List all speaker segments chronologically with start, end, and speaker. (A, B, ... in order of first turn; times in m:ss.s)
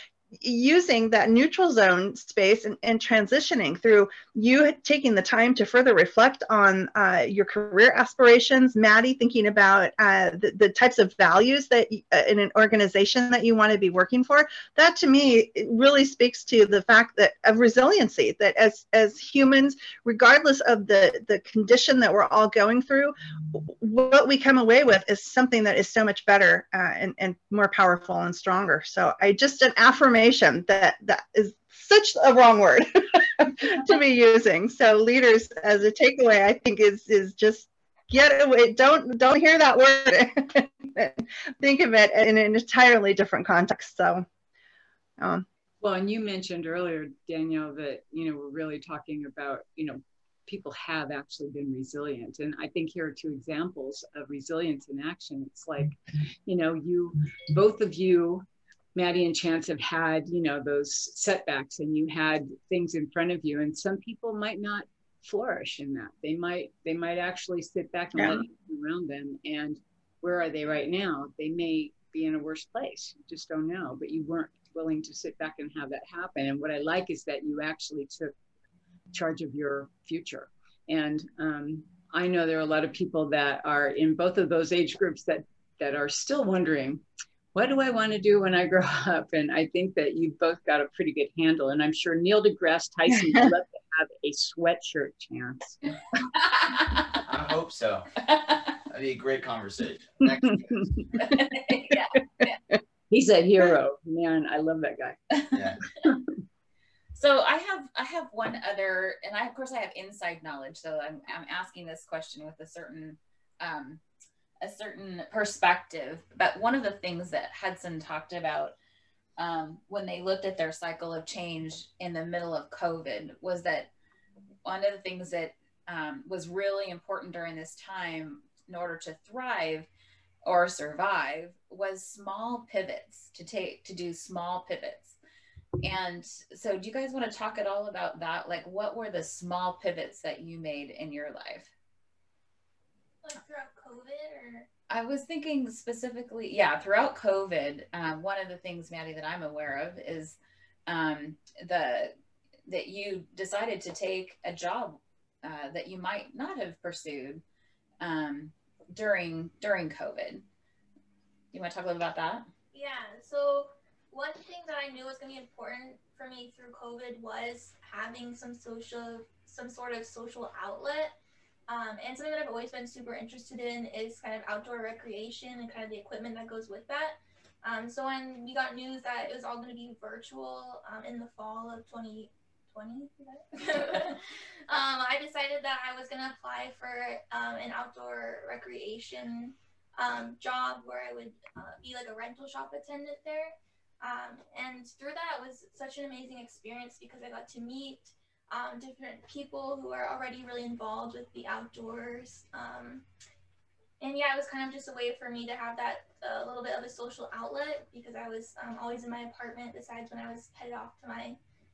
0:00.4-0:44.2 A
0:45.2-0:45.4 A
0:45.8-1:18.3 B
1:08.2-1:08.4 A
1:19.1-1:35.8 B
1:36.3-1:37.1 C
1:37.2-1:41.1 D
1:40.2-1:41.2 B
1:41.2-1:42.6 C
1:43.1-1:45.2 B
1:45.5-1:45.8 D
1:47.1-1:54.0 C
1:54.6-1:58.7 C
1:59.4-2:03.9 C
2:04.6-2:09.9 C
2:10.4-2:15.2 C
2:15.8-2:21.7 C
2:23.2-2:24.7 E
2:24.9-2:32.1 C
2:32.7-2:37.4 C
2:38.0-2:40.4 C
2:41.5-2:42.5 C
2:42.7-2:51.1 E
2:51.7-3:23.0 E
3:24.0-3:31.4 E